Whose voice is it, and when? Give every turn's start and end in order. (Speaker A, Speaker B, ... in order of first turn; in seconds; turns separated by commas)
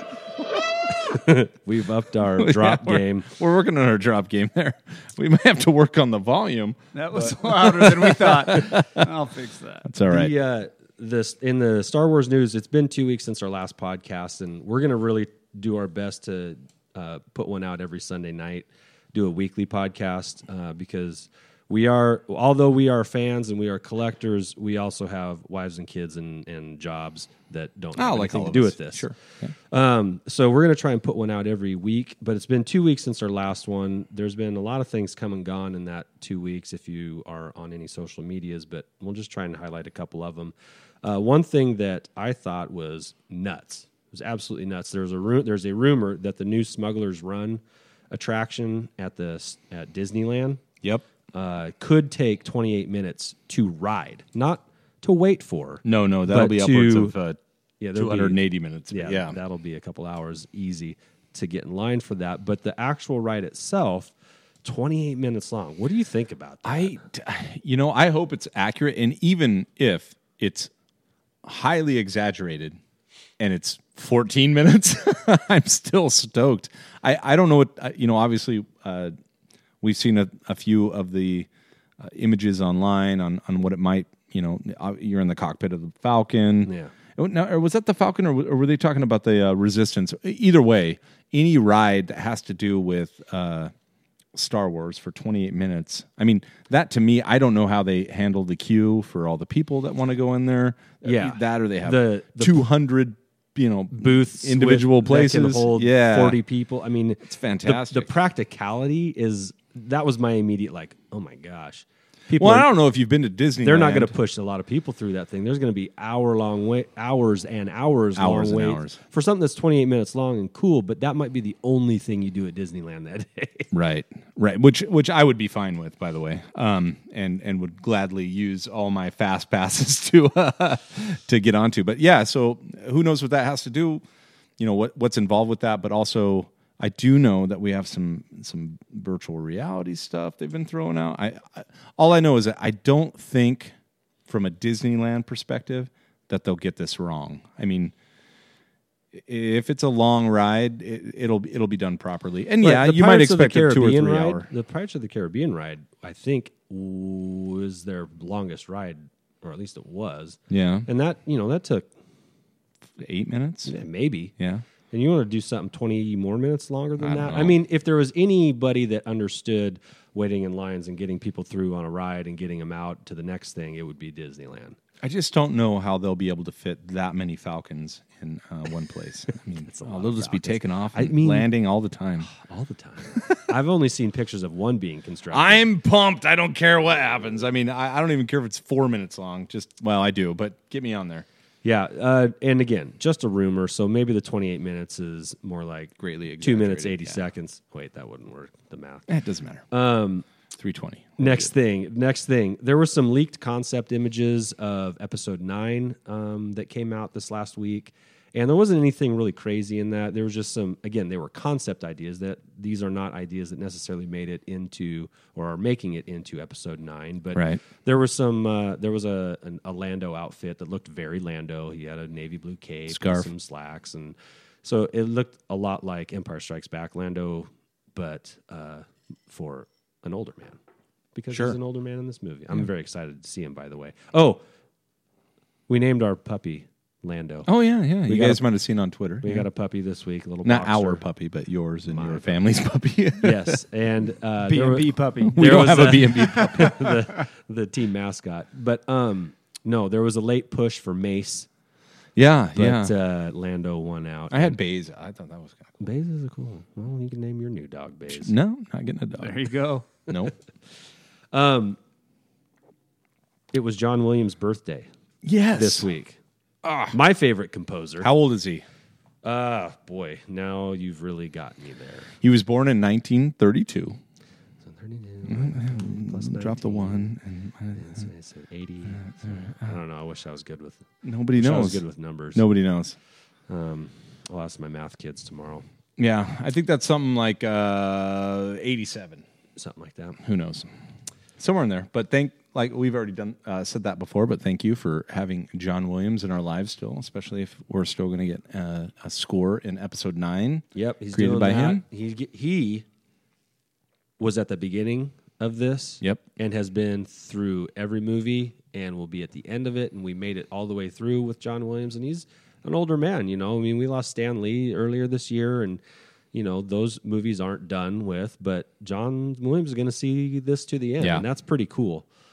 Speaker A: 1.0-3.3, Speaker B: 2.4-9.1, Speaker C: 6.9-9.9, Speaker B: 9.8-10.3, Speaker A: 10.1-29.1, Speaker B: 28.0-29.5, Speaker A: 29.7-50.6, Speaker A: 51.3-57.1, Speaker B: 55.8-57.4, Speaker A: 57.8-64.1, Speaker B: 57.9-59.4, Speaker A: 64.6-67.0, Speaker B: 66.6-70.7, Speaker B: 71.4-72.8, Speaker B: 73.4-79.1, Speaker B: 79.8-81.5, Speaker B: 82.0-93.7, Speaker A: 86.6-86.9, Speaker B: 94.3-106.4, Speaker A: 101.0-102.6, Speaker A: 103.9-112.7, Speaker B: 107.3-108.1, Speaker B: 112.3-114.1, Speaker A: 113.6-123.7, Speaker B: 118.2-119.0, Speaker B: 123.7-134.0, Speaker B: 134.6-143.7, Speaker B: 144.3-147.9, Speaker B: 149.1-154.5, Speaker A: 152.6-161.9, Speaker B: 160.5-160.9, Speaker B: 163.0-163.7, Speaker A: 163.6-164.3, Speaker B: 164.4-164.6, Speaker A: 164.9-174.8, Speaker B: 167.0-167.6, Speaker B: 175.0-182.3, Speaker A: 179.6-181.5, Speaker A: 182.3-185.6, Speaker B: 185.3-191.2, Speaker A: 191.6-199.1, Speaker B: 196.0-197.2, Speaker B: 199.1-199.6, Speaker A: 199.7-200.3, Speaker B: 200.6-201.5, Speaker A: 201.2-230.6, Speaker B: 217.3-217.6, Speaker B: 222.9-223.3, Speaker A: 231.1-234.4, Speaker B: 231.3-231.6, Speaker A: 235.7-237.5, Speaker B: 237.5-239.4, Speaker A: 238.0-238.4, Speaker A: 239.2-241.0, Speaker B: 240.4-243.6, Speaker A: 241.9-242.4, Speaker A: 243.2-251.5, Speaker C: 244.5-246.2, Speaker B: 245.2-247.0, Speaker B: 252.2-252.9, Speaker A: 252.6-254.6, Speaker B: 254.3-255.7, Speaker A: 255.8-258.3, Speaker B: 258.1-259.4, Speaker C: 259.2-259.9, Speaker B: 260.1-260.3, Speaker A: 261.3-261.8, Speaker A: 263.5-264.9, Speaker B: 265.2-265.9, Speaker A: 265.6-266.2, Speaker B: 266.6-266.9, Speaker A: 266.9-268.1, Speaker B: 268.0-268.6, Speaker A: 269.2-272.1, Speaker B: 272.2-274.0, Speaker A: 274.6-277.1, Speaker B: 275.2-278.1, Speaker A: 277.7-282.4, Speaker B: 279.0-279.7, Speaker B: 281.0-282.9, Speaker A: 283.5-285.6, Speaker B: 286.0-289.2, Speaker A: 289.6-290.2, Speaker B: 290.2-290.7, Speaker B: 291.4-301.8, Speaker A: 300.7-302.8, Speaker A: 304.2-315.8, Speaker A: 316.3-322.1, Speaker B: 321.0-321.2